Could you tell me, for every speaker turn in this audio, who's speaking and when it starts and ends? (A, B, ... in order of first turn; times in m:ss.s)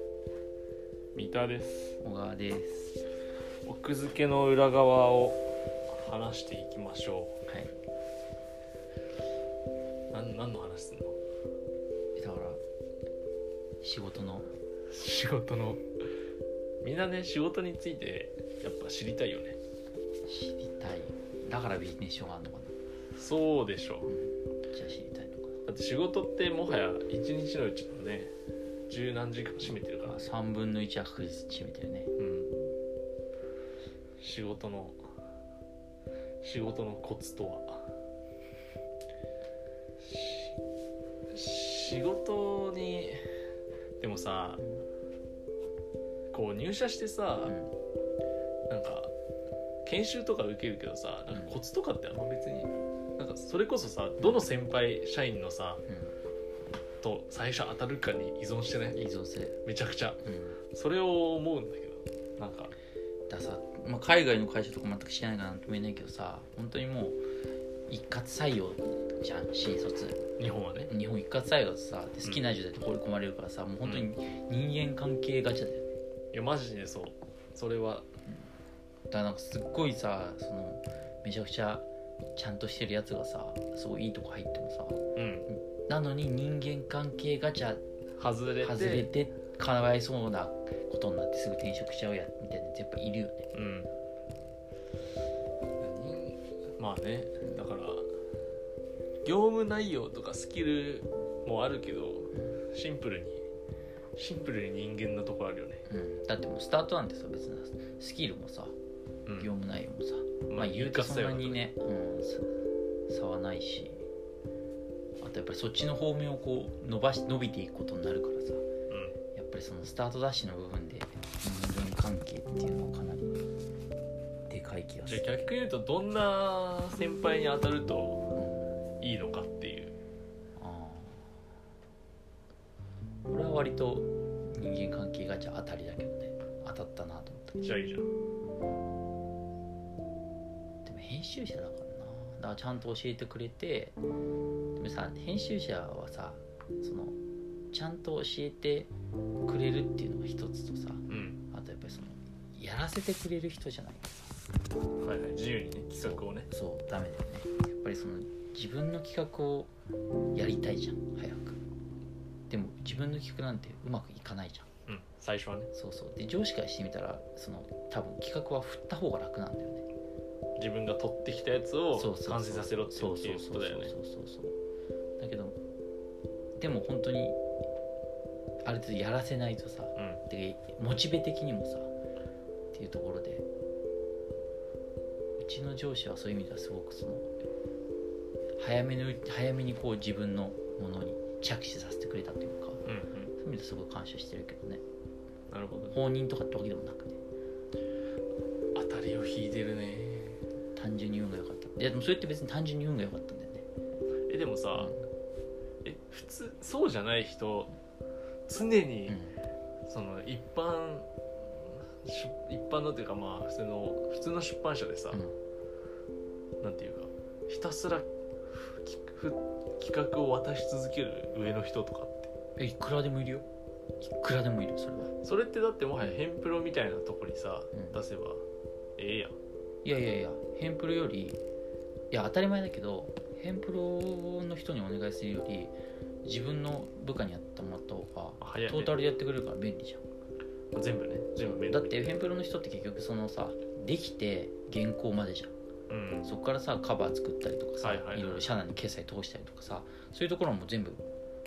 0:01.1-0:02.0 A
0:02.0-0:03.0 B
0:03.6-0:07.4 A
0:07.5-0:07.7 B
0:10.1-0:11.2 A
0:12.2-0:12.6 B
0:13.8-0:14.5 B
0:14.9-0:15.8 A
0:16.8-0:19.6 A
0:20.2-0:22.7 B
0:23.1-0:24.1 A
0:24.0-0:25.6 B
0:25.6-0:28.3 A
0:28.9-0:30.3 A
0:30.0-0:32.1 B
0:32.2-0:32.5 A
0:34.2-0:35.0 A
0:36.4-0:37.8 A
0:40.0-0:40.5 A
0:41.3-0:43.2 A
0:44.0-0:44.6 A
0:46.3-0:47.5 A
0:47.4-0:47.7 B
0:48.7-0:49.1 A
0:49.8-0:55.8 A
0:55.9-0:56.1 B
0:57.0-0:59.0 A
0:58.9-0:59.6 B
0:59.6-1:00.2 A
1:00.2-1:00.6 B
1:00.7-1:02.7 A
1:03.3-1:07.2 B
1:07.9-1:15.8 B
1:10.4-1:10.9 A
1:13.8-1:14.1 A
1:16.3-1:18.1 A
1:19.1-1:27.8 B
1:25.2-1:25.5 A
1:28.2-1:29.1 A
1:28.6-1:33.4 B
1:33.5-1:33.9 A
1:35.8-1:38.1 A
1:39.2-1:43.4 A
1:44.2-1:45.8 A
1:45.9-1:48.7 B
1:49.4-1:52.5 B
1:50.5-1:51.6 A
1:53.1-1:54.0 B
1:55.2-1:58.7 B
1:58.9-1:59.2 A
1:59.3-2:03.4 B
2:04.5-2:05.4 B
2:05.0-2:08.2 A
2:08.3-2:08.7 B
2:09.0-2:09.9 A
2:10.6-2:11.3 B
2:13.3-2:17.7 B
2:17.6-2:18.1 A
2:20.8-2:24.0 B
2:24.8-2:27.2 B
2:27.7-2:28.9 B
2:29.4-2:34.2 B
2:31.1-2:31.4 A
2:35.0-2:36.5 A
2:35.9-2:39.7 B
2:40.3-2:41.6 B
2:42.5-2:44.7 B
2:44.9-2:45.7 A
2:45.7-2:49.8 B
2:50.6-2:53.9 A
2:51.9-2:54.6 B
2:55.2-2:55.6 B
2:56.6-2:57.4 B
2:58.6-3:01.9 B
3:00.0-3:00.2 A
3:02.7-3:03.4 B
3:05.4-3:07.3 B
3:08.6-3:12.8 B
3:12.8-3:13.3 A
3:13.4-3:14.8 B
3:15.5-3:16.0 A
3:15.9-3:17.2 B
3:18.7-3:20.4 A
3:20.8-3:23.6 B
3:24.3-3:24.9 A
3:24.7-3:25.1 B
3:25.8-3:27.7 A
3:28.5-3:29.2 A
3:29.1-3:29.4 B
3:29.9-3:35.2 A
3:36.6-3:42.3 A
3:42.6-3:43.4 B
3:44.0-3:45.1 B
3:45.2-3:48.4 A
3:47.7-3:48.0 B
3:49.0-3:49.4 A
3:49.8-3:51.4 B
3:52.1-4:00.0 B
3:58.4-3:59.0 A
4:00.7-4:02.1 A
4:01.4-4:05.5 B
4:05.9-4:06.3 A
4:06.2-4:11.0 B
4:07.8-4:08.5 A